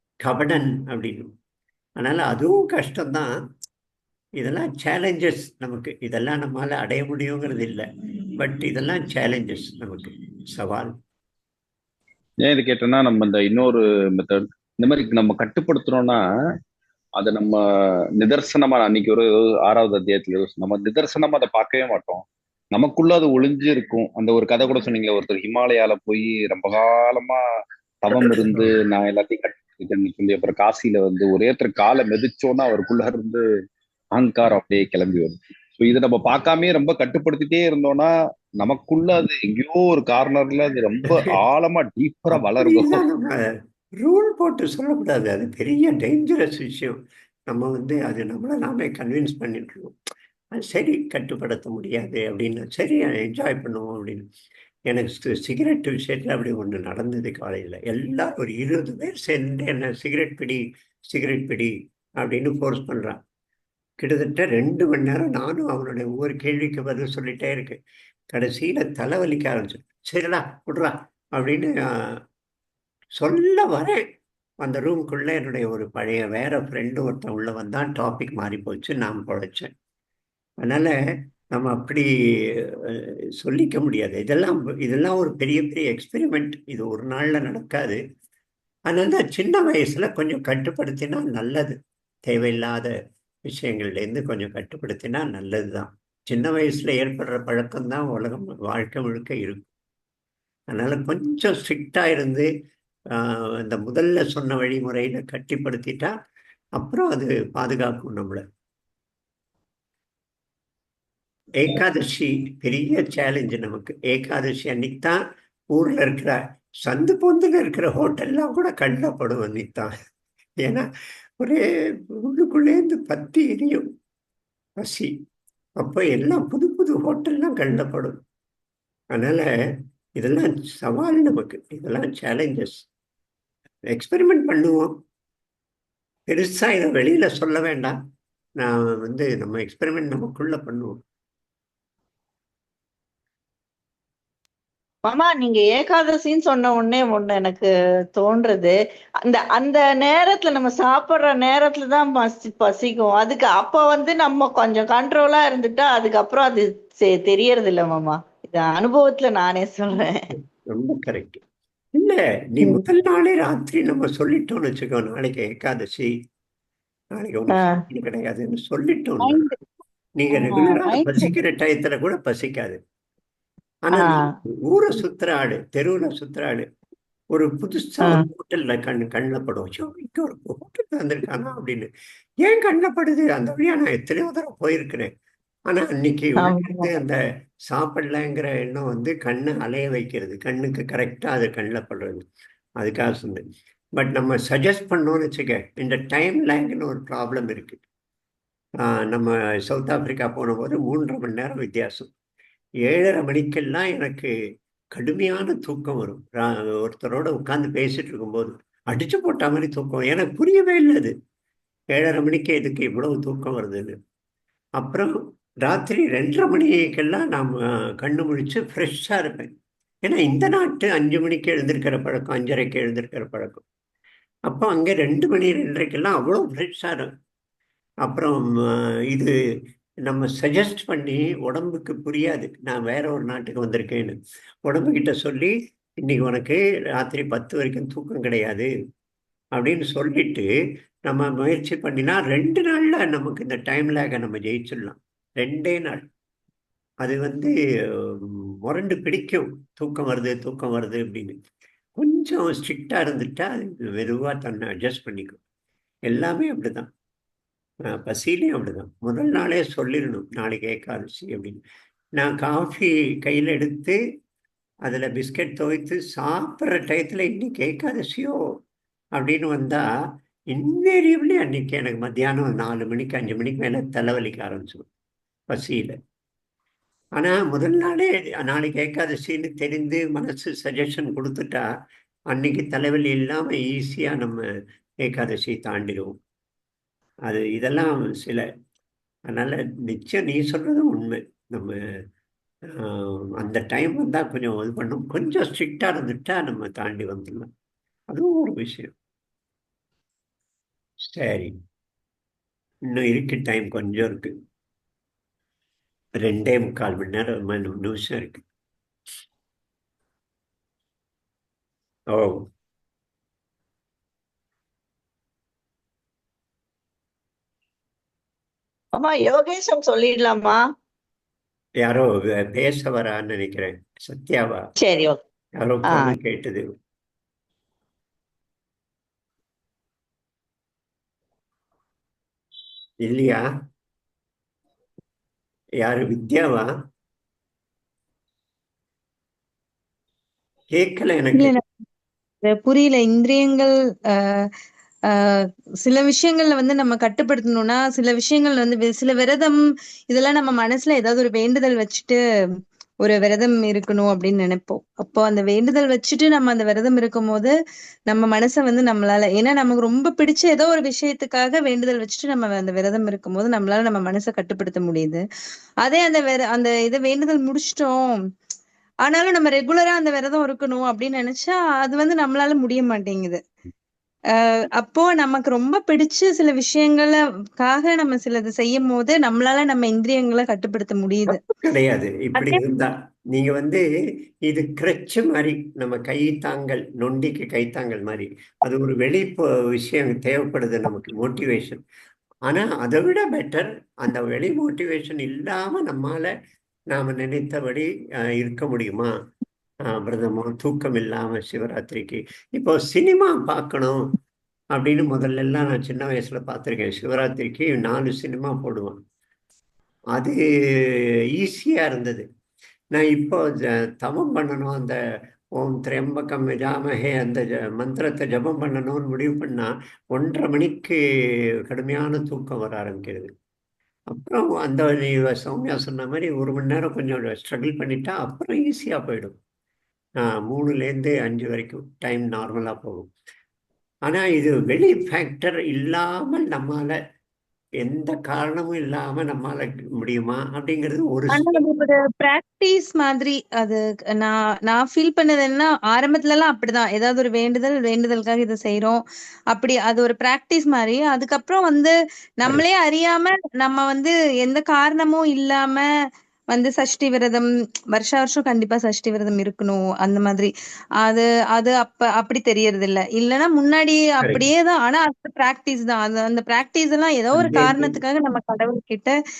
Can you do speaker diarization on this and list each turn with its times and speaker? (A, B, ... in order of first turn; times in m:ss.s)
0:00.2-0:01.3 A
0:02.0-0:03.3 A
0:04.4-0:10.9 A
0:12.4-0:16.2 B
0:17.2-0:17.6 B
0:18.2-0:27.4 B
0:28.0-0:33.4 B
0:34.2-0:38.1 B
0:38.6-0:43.0 B
0:42.3-0:43.4 A
0:44.0-0:47.0 A
0:47.5-0:49.9 A
0:50.5-0:54.2 A
0:54.9-1:03.2 A
1:04.0-1:07.8 A
1:08.3-1:12.2 A
1:13.2-1:14.0 A
1:14.6-1:19.7 A
1:20.6-1:20.9 A
1:21.5-1:22.1 A
1:22.9-1:28.0 A
1:28.9-1:32.9 A
1:33.5-1:39.7 A
1:40.7-1:42.5 A
1:43.2-1:46.1 A
1:46.8-1:48.4 A
1:51.6-1:55.2 A
1:55.7-1:59.9 A
2:02.2-2:03.9 A
2:04.8-2:05.1 A
2:05.8-2:08.2 A
2:09.1-2:09.5 A
2:10.2-2:12.9 A
2:13.9-2:15.0 A
2:16.3-2:18.0 A
2:18.6-2:21.0 A
2:25.0-2:40.2 C
2:40.7-2:41.4 A
2:42.0-2:46.1 A
2:47.2-2:49.4 A
2:50.2-2:52.8 A
2:50.4-2:51.3 C
2:53.8-2:56.7 A
2:53.9-2:54.3 C
2:57.3-3:01.9 A
3:02.4-3:05.1 A
3:05.7-3:07.2 A
3:06.4-3:06.9 C
3:07.7-3:12.2 A
3:12.8-3:13.4 A
3:14.0-3:17.8 A
3:18.8-3:22.1 A
3:22.8-3:24.3 A
3:24.9-3:31.1 A
3:31.9-3:33.9 A
3:34.8-3:39.5 A
3:40.0-3:43.6 A
3:44.5-3:47.1 A
3:48.0-3:48.4 A
3:50.0-3:58.7 A
3:59.6-4:00.5 A
4:01.1-4:06.0 A
4:07.0-4:07.5 A
4:08.6-4:11.4 A
4:12.0-4:15.4 A
4:16.1-4:16.9 A
4:18.0-4:21.6 A
4:22.2-4:24.0 A
4:24.8-4:28.4 A
4:29.2-4:29.8 A
4:30.5-4:34.9 A
4:35.5-4:35.9 A
4:37.2-4:41.6 A
4:42.3-4:44.4 A
4:45.0-4:46.2 A
4:47.3-4:48.4 A
4:49.3-4:51.7 A
4:52.8-4:57.5 A
4:58.1-4:58.9 A
5:01.0-5:01.5 A
5:02.9-5:04.3 A
5:06.2-5:08.4 A
5:12.1-5:12.4 A
5:19.0-5:20.6 C
5:21.8-5:24.6 A
5:24.8-5:25.2 C
5:25.6-5:26.6 A
5:33.0-5:33.4 A
5:35.8-5:36.7 A
5:40.7-5:41.6 A
5:41.3-5:41.6 D
5:42.4-5:44.5 D
5:45.1-5:49.6 D
5:50.1-5:52.2 D
5:53.0-5:57.5 D
5:58.1-6:05.2 D
6:05.8-6:08.0 D
6:09.0-6:13.4 D
6:14.3-6:21.4 D
6:21.4-6:23.8 A
6:24.4-6:31.8 A
6:32.5-6:36.3 A
6:36.9-6:39.1 A
6:39.9-6:44.0 A
6:44.7-6:49.0 A
6:50.1-6:50.4 A
6:50.9-6:52.2 A
6:52.9-6:55.0 A
6:55.6-7:01.0 A
7:01.7-7:03.3 A
7:04.1-7:09.4 A
7:10.2-7:13.1 A
7:14.1-7:17.0 A
7:17.8-7:21.5 A
7:21.3-7:29.0 D
7:29.5-7:35.8 D
7:36.5-7:40.5 D
7:41.0-7:49.1 D
7:44.2-7:44.4 A
7:47.3-7:48.0 A